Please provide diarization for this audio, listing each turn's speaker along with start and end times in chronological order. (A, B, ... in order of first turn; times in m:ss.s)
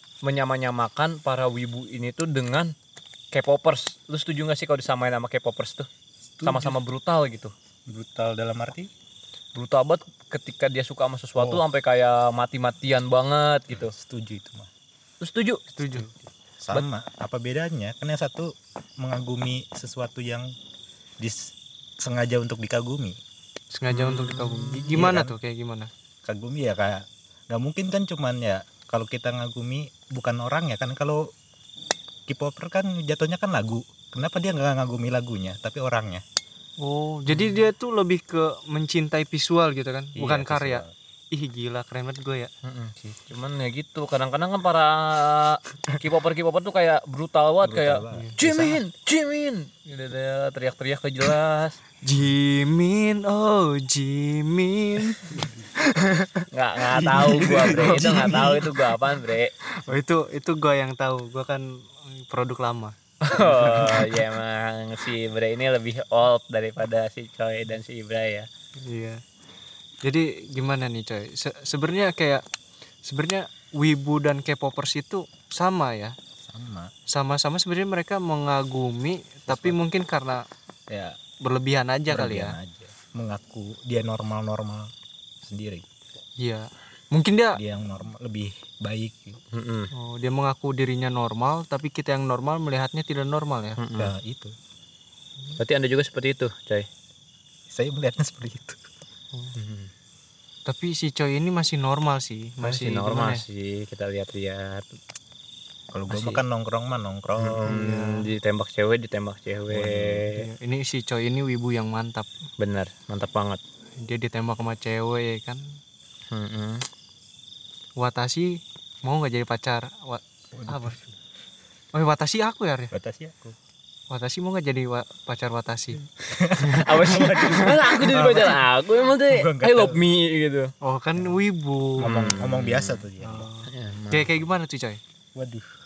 0:00.2-0:02.7 A
0:03.3-0:05.9 A
0:06.4-0:06.8 B
0:06.4-0:07.5 A
0:07.9-0:08.9 B
0:09.5-0:13.9 A
0:11.4-0:11.6 B
0:13.7-0:14.7 B
0:15.2-0:15.7 A
0:15.7-0:16.1 C
0:15.9-0:20.5 B
0:21.2-0:23.2 B
0:23.7-0:25.9 C
0:23.9-0:25.0 A
0:24.9-0:25.4 B
0:26.2-0:31.2 B
0:32.3-0:36.2 B
0:36.8-0:42.5 C
0:37.3-0:37.6 A
0:40.2-0:40.9 B
0:42.6-0:51.8 A
0:47.6-0:48.4 B
0:48.1-0:48.8 C
0:52.0-0:58.8 C
0:55.2-0:55.7 B
0:56.5-0:59.5 A
0:56.9-0:58.7 B
0:59.8-1:03.0 C
1:03.2-1:08.5 A
1:03.3-1:04.3 B
1:08.8-1:09.2 C
1:10.0-1:12.4 C
1:13.0-1:16.1 C
1:16.4-1:16.9 B
1:17.1-1:20.4 C
1:19.5-1:19.8 B
1:20.9-1:21.2 B
1:21.4-1:22.6 C
1:22.1-1:24.9 B
1:25.4-1:25.8 B
1:26.4-1:27.6 C
1:27.5-1:29.4 B
1:29.5-1:29.9 A
1:29.9-1:33.8 C
1:33.8-1:34.1 A
1:34.0-1:34.5 B
1:35.6-1:36.9 A
1:37.7-1:38.8 B
1:39.5-1:39.9 A
1:40.6-1:43.4 C
1:42.6-1:45.0 A
1:45.9-1:47.8 B
1:46.1-1:46.4 A
1:47.4-1:50.4 A
1:47.7-1:48.3 C
1:49.7-1:50.3 B
1:50.3-1:52.3 C
1:52.6-1:53.6 A
1:54.0-1:55.6 C
1:56.3-1:56.8 A
1:58.0-2:01.0 C
2:00.5-2:01.0 B
2:01.9-2:02.9 C
2:02.9-2:03.6 B
2:04.1-2:06.0 C
2:06.3-2:10.7 A
2:06.3-2:10.0 B
2:06.6-2:07.5 C
2:10.8-2:12.1 C
2:12.0-2:13.5 B
2:12.0-2:13.1 A
2:13.2-2:15.0 C
2:13.7-2:14.4 A
2:15.4-2:15.7 B